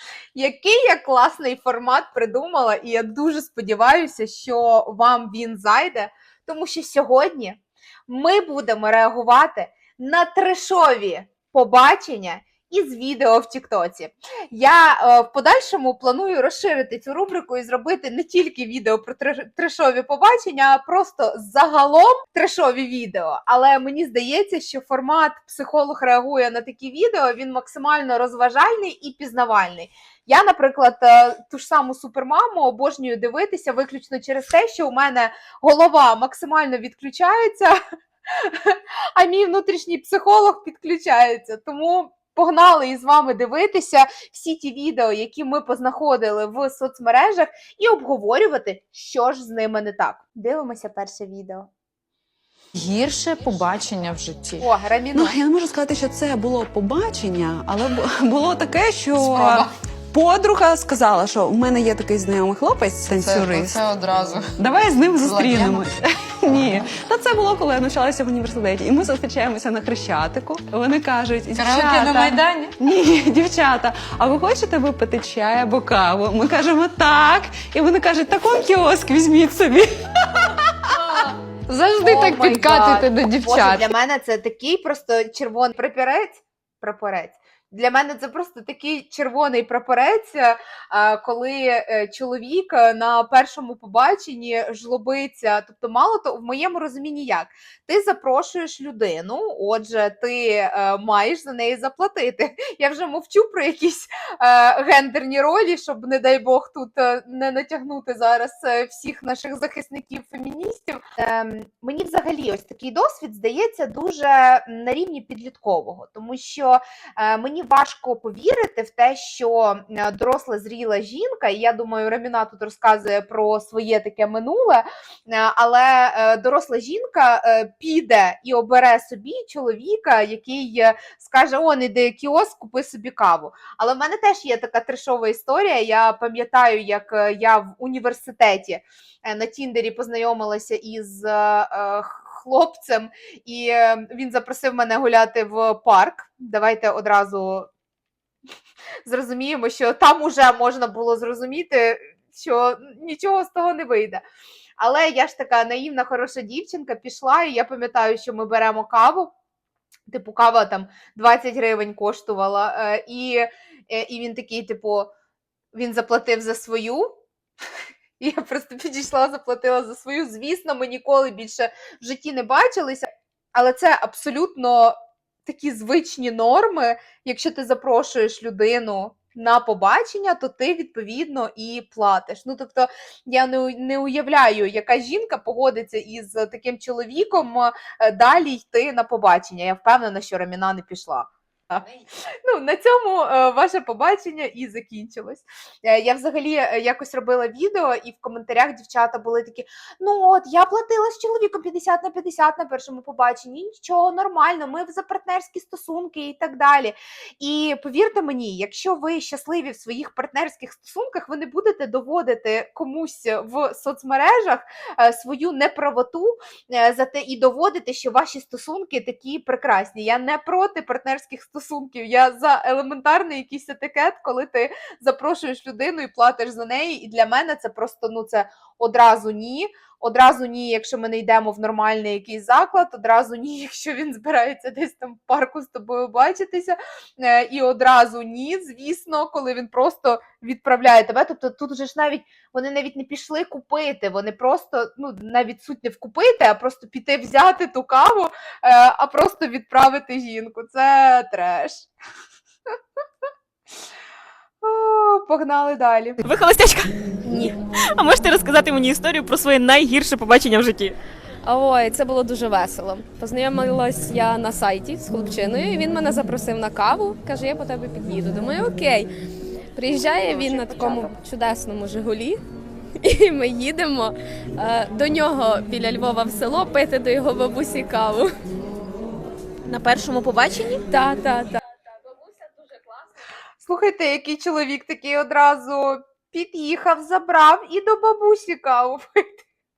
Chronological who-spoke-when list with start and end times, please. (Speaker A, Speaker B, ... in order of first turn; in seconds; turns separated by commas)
Speaker A: 0.3-37.8, Speaker A: 38.4-51.7, Speaker B: 52.8-64.0, Speaker A: 54.6-55.4, Speaker C: 63.4-64.5, Speaker B: 64.5-81.0, Speaker C: 65.4-65.8, Speaker C: 71.6-72.7, Speaker B: 81.7-83.9, Speaker A: 82.0-147.7, Speaker A: 149.1-154.2, Speaker A: 154.8-159.3, Speaker A: 160.1-165.1, Speaker A: 165.7-167.2, Speaker A: 168.2-174.9, Speaker A: 175.4-191.9, Speaker A: 192.5-251.9, Speaker A: 254.6-256.2, Speaker D: 256.2-261.0, Speaker E: 257.3-257.5, Speaker E: 261.4-269.1, Speaker E: 269.7-272.4, Speaker D: 270.2-271.1, Speaker E: 273.0-278.3, Speaker D: 279.7-280.8, Speaker E: 280.9-281.6, Speaker A: 283.6-289.4